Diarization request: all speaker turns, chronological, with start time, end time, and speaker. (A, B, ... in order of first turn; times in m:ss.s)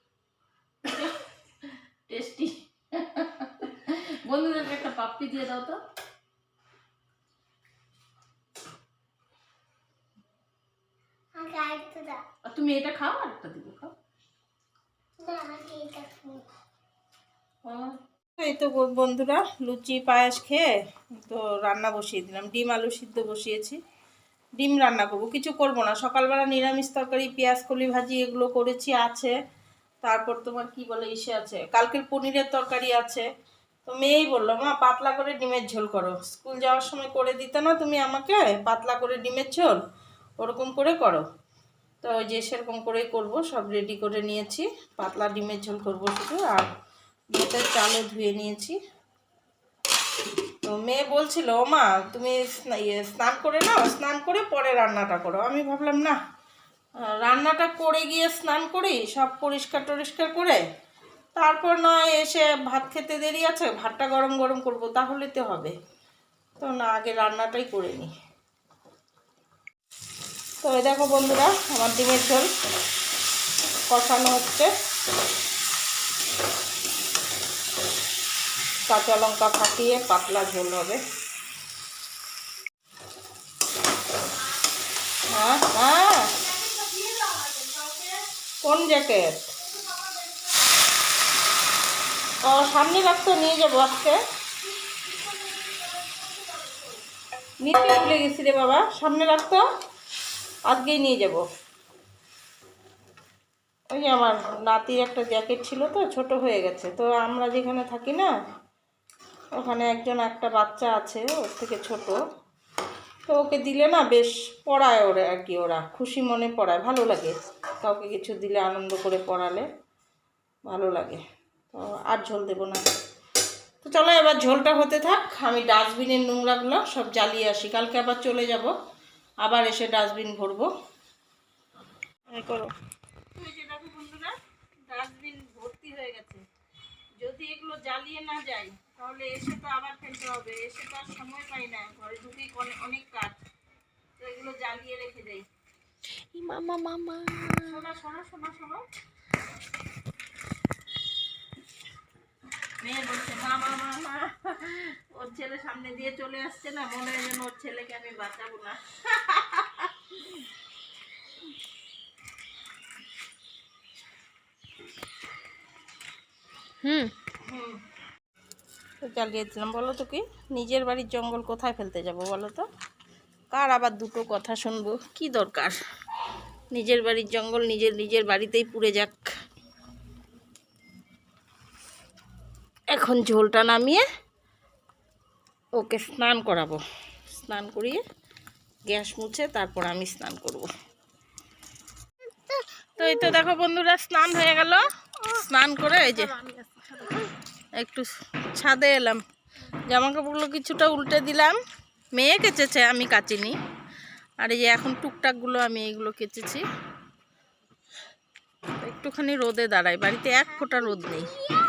0:00.8-0:05.8 A
0:11.4-0:12.2 B
0:12.4-0:13.9 A
0:15.2-0:16.4 B
0:17.6-0:23.8 A
0:24.6-0:29.3 A
0:30.0-0:33.2 A
0:33.8-0:39.8 A
0:40.4-0:41.2 A
0:42.0-0:46.7 A
0:47.3-0:48.8 A
0:50.6-0:56.2 A
0:57.0-1:00.6 A
1:01.4-1:05.7 A
1:06.6-1:08.1 A
1:10.6-1:12.5 A
1:13.9-1:14.7 A
1:18.9-1:21.0 A
1:25.2-1:26.4 A
1:26.7-1:28.2 C
1:28.6-1:29.5 A
1:32.4-1:34.2 A
1:34.9-1:37.0 B
1:37.6-1:39.6 A
1:40.7-1:41.4 A
1:43.9-1:48.3 A
1:49.5-1:52.2 A
1:53.3-1:59.7 A
2:00.7-2:01.2 A
2:01.7-2:02.8 A
2:03.8-2:08.7 A
2:09.4-2:10.7 A
2:12.3-2:12.7 A
2:13.3-2:14.3 A
2:14.9-2:16.4 A
2:17.2-2:23.4 A
2:24.2-2:25.4 A
2:26.3-2:27.5 C
2:27.6-2:28.8 A
2:32.8-2:40.2 A
2:46.8-2:47.1 C
2:47.4-2:47.8 A
2:49.0-2:52.6 A
2:53.5-2:55.8 A
2:56.7-2:59.3 A
3:02.9-3:04.0 A
3:05.8-3:06.8 A
3:07.3-3:08.0 A
3:08.9-3:10.7 A
3:13.0-3:16.3 A
3:16.2-3:17.3 C
3:17.7-3:19.2 A
3:19.9-3:21.6 A
3:22.1-3:23.6 A
3:24.4-3:26.6 A
3:28.8-3:31.3 A